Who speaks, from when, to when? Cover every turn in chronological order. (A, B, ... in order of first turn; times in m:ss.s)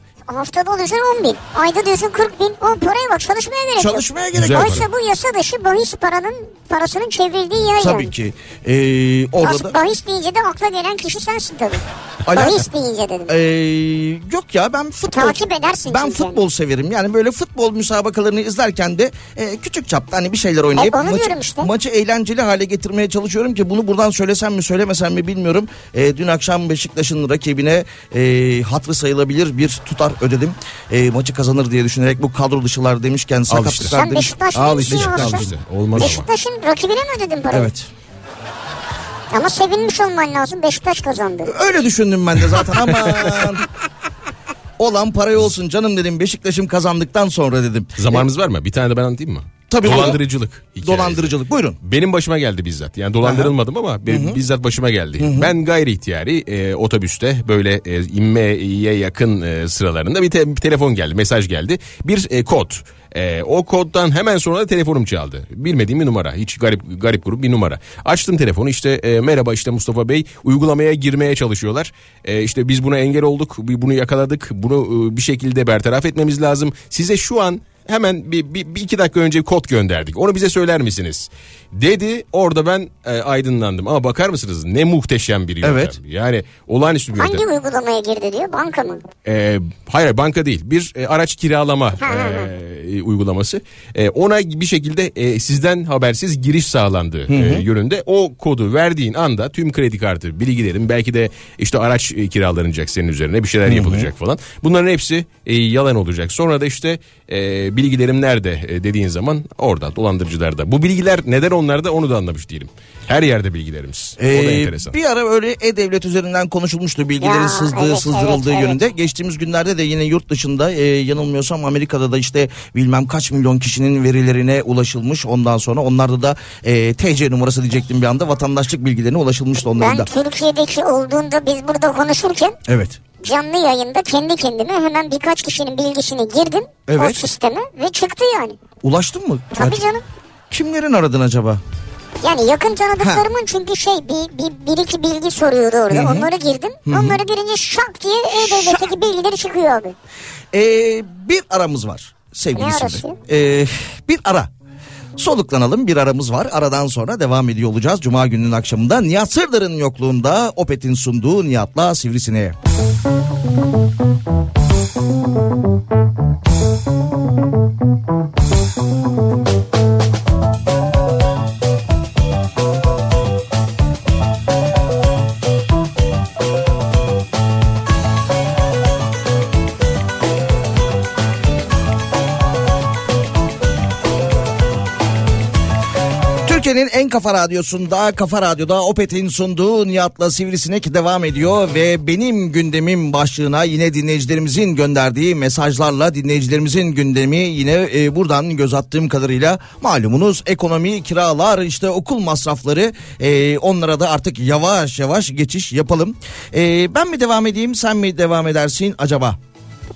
0:00.3-0:08.1 A
0:03.8-0:04.9 B
0:04.4-0:04.8 C
0:07.8-0:09.8 B
0:09.4-0:13.3 A
0:12.2-0:12.7 B
0:13.3-0:36.1 B
0:15.1-0:16.4 A
0:20.7-0:21.7 A
0:33.5-0:33.9 C
0:33.9-0:37.7 A
0:34.5-0:36.3 C
0:37.5-0:37.9 B
0:39.3-0:41.5 A
0:41.4-0:43.6 B
0:42.6-0:43.6 C
0:44.8-0:48.2 B
0:48.0-1:27.4 C
0:49.7-0:50.2 B
0:50.8-0:51.8 B
0:53.2-0:53.5 B
0:54.0-0:54.4 B
0:55.2-0:55.5 B
1:25.6-1:25.9 B
1:27.2-1:29.0 A
1:29.2-1:54.9 C
1:32.0-1:32.5 A
1:37.3-1:37.6 B
1:43.6-1:44.1 B
1:54.2-2:10.1 B
1:57.2-1:58.8 A
2:09.8-2:12.6 A
2:12.7-2:13.0 B
2:13.2-2:18.6 A
2:16.9-2:17.2 B
2:18.8-2:19.8 B
2:19.5-2:20.0 A
2:20.5-2:21.6 B
2:22.2-2:30.0 A
2:25.9-2:26.3 B
2:26.8-2:27.2 B
2:28.3-2:28.9 B
2:30.5-2:34.5 B
2:32.6-2:33.2 A
2:35.2-2:42.5 B
3:06.4-3:29.4 B